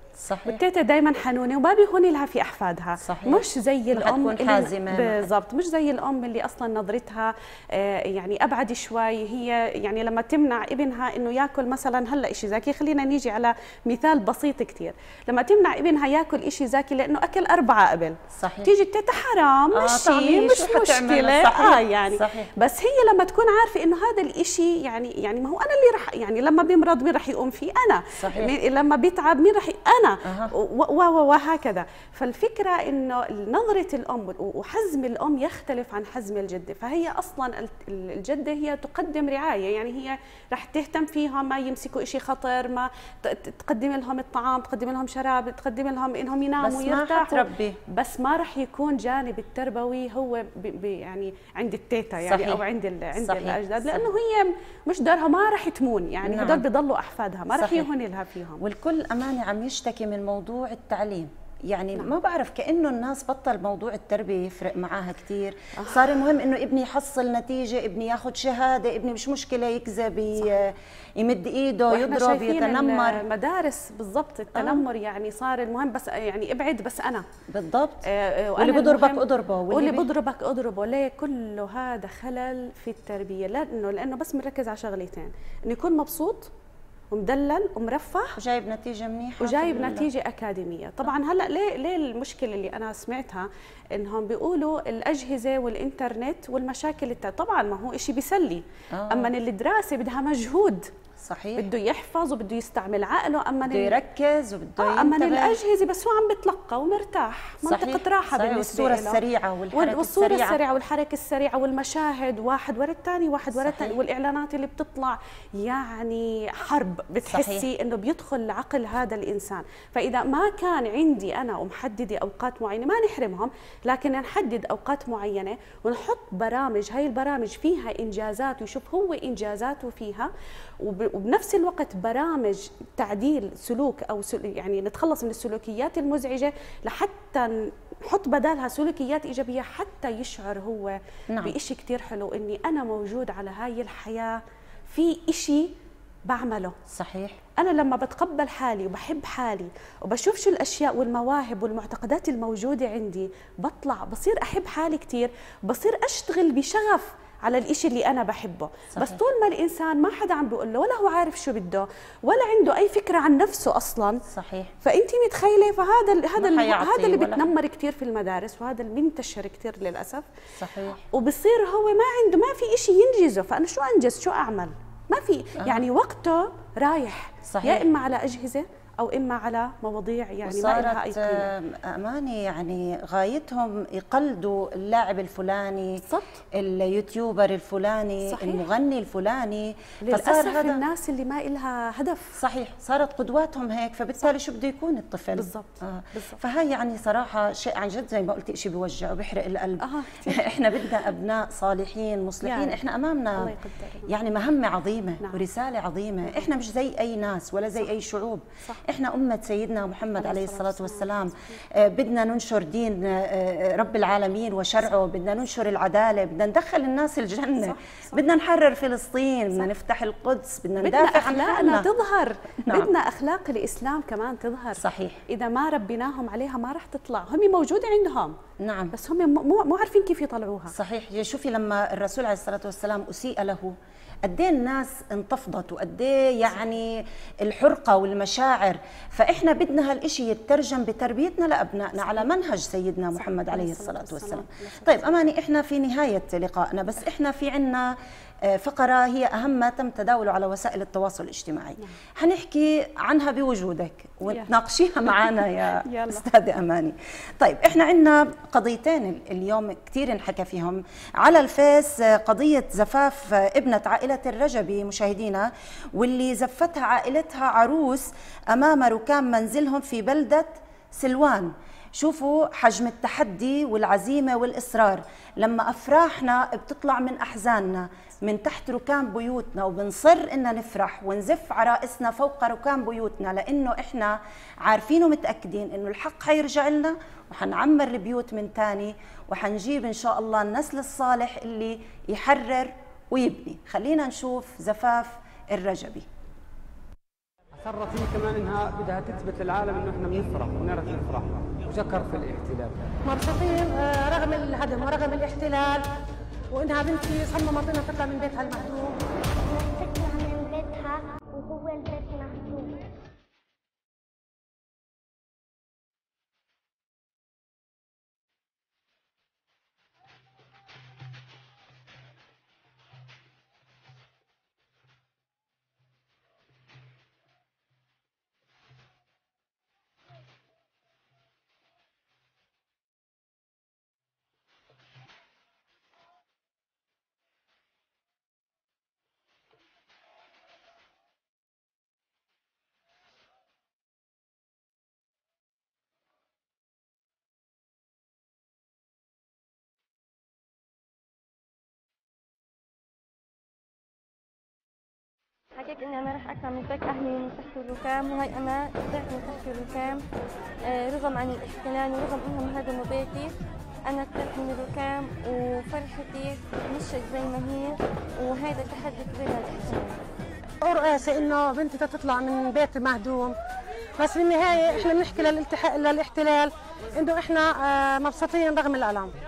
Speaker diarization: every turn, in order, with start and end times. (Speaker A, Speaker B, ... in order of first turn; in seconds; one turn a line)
Speaker A: 0.2-0.6
Speaker B: 0.5-58.6
Speaker A: 3.0-5.3
Speaker A: 18.3-18.7
Speaker A: 19.7-22.5
Speaker A: 28.2-28.5
Speaker A: 30.2-30.5
Speaker A: 46.6-47.8
Speaker A: 52.2-52.6
Speaker A: 53.1-54.1
Speaker A: 56.2-56.6
Speaker A: 57.5-57.9
Speaker A: 58.6-73.2
Speaker B: 65.8-66.0
Speaker B: 71.9-77.2
Speaker A: 74.5-74.8
Speaker A: 77.5-80.1
Speaker B: 78.0-86.5
Speaker B: 87.1-88.4
Speaker A: 88.3-90.1
Speaker B: 89.4-100.9
Speaker A: 98.9-99.3
Speaker A: 101.2-101.7
Speaker B: 101.6-104.0
Speaker A: 103.6-105.6
Speaker B: 104.8-109.2
Speaker A: 107.6-110.6
Speaker B: 109.7-145.7
Speaker A: 113.5-114.0
Speaker A: 117.2-117.7
Speaker B: 146.3-146.8
Speaker A: 146.9-147.4
Speaker B: 147.6-164.2
Speaker A: 158.9-159.2
Speaker A: 164.3-164.7
Speaker B: 164.8-170.2
Speaker A: 166.4-167.5
Speaker A: 170.6-171.0
Speaker B: 171.1-181.5
Speaker A: 177.5-177.9
Speaker A: 180.4-186.0
Speaker B: 186.0-186.4
Speaker A: 186.5-190.8
Speaker B: 188.2-188.6
Speaker B: 190.0-192.4
Speaker A: 192.4-203.5
Speaker B: 195.3-196.4
Speaker B: 199.8-200.5
Speaker B: 202.4-202.8
Speaker B: 203.3-204.1
Speaker A: 204.1-221.9
Speaker B: 210.2-211.6
Speaker B: 217.6-218.2
Speaker B: 220.8-228.3
Speaker A: 222.6-222.9
Speaker A: 224.7-225.2
Speaker A: 228.6-228.9
Speaker B: 228.9-230.7
Speaker A: 230.7-296.1
Speaker B: 243.1-245.2
Speaker B: 255.8-256.3
Speaker C: 297.6-302.9
Speaker D: 303.0-305.8
Speaker D: 306.5-308.9
Speaker E: 309.5-312.8
Speaker F: 355.6-360.0
Speaker F: 360.6-363.3
Speaker F: 363.9-370.0
Speaker D: 370.6-373.3
Speaker D: 374.0-379.1